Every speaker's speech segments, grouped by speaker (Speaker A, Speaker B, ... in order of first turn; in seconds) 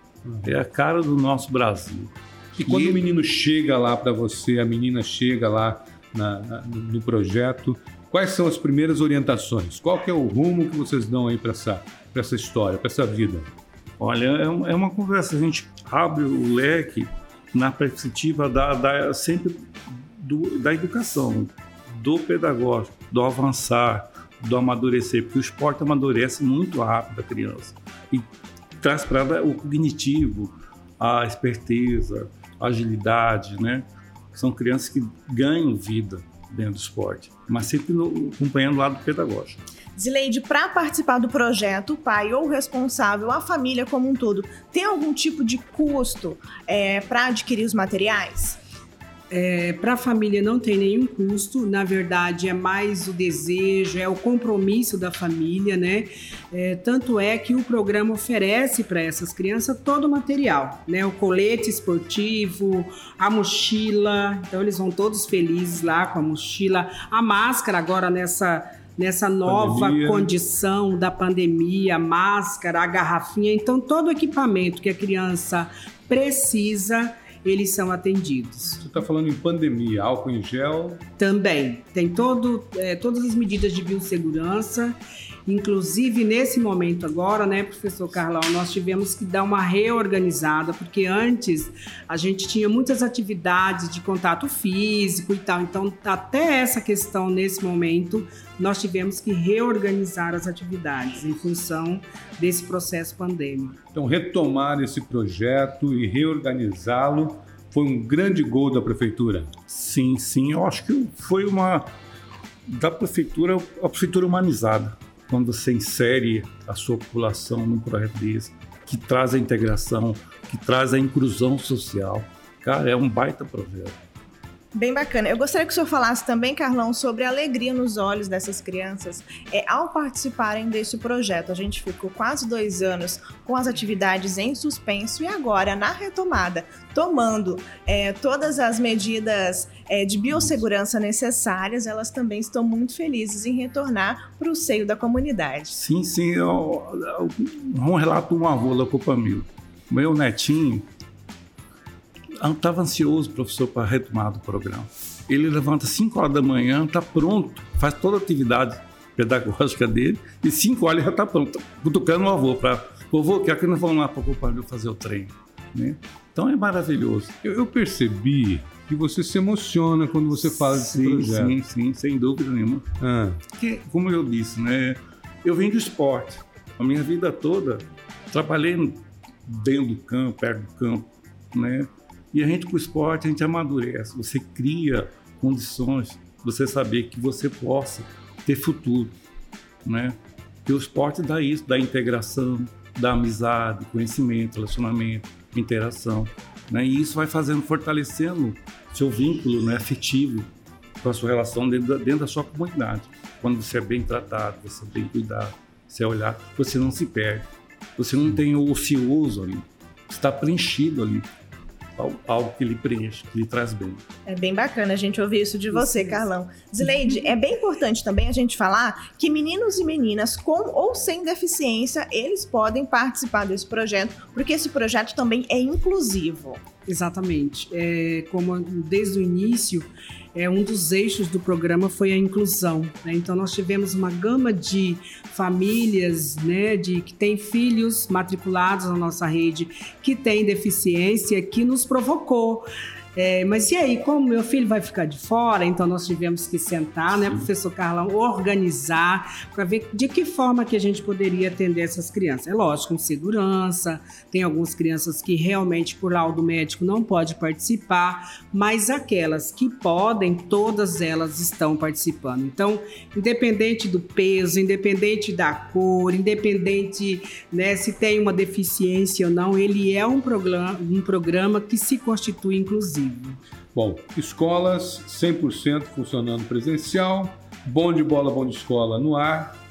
Speaker A: 0.2-0.5, 2.6-13.5, 69.4-70.3, 78.8-81.0, 103.9-109.5, 167.4-171.6, 173.0-173.4, 273.7-279.6
Speaker B: 0.4-3.0, 14.0-28.2, 28.8-39.6, 109.7-111.9, 112.7-124.0, 145.7-150.9, 152.4-167.3, 170.5-172.8, 173.5-189.1, 189.8-200.5, 201.0-211.3, 212.0-214.0, 247.1-247.4
Speaker C: 40.0-48.6, 124.7-145.8, 214.2-226.6
Speaker D: 49.3-78.8, 81.2-103.8, 215.7-216.3, 226.8-273.4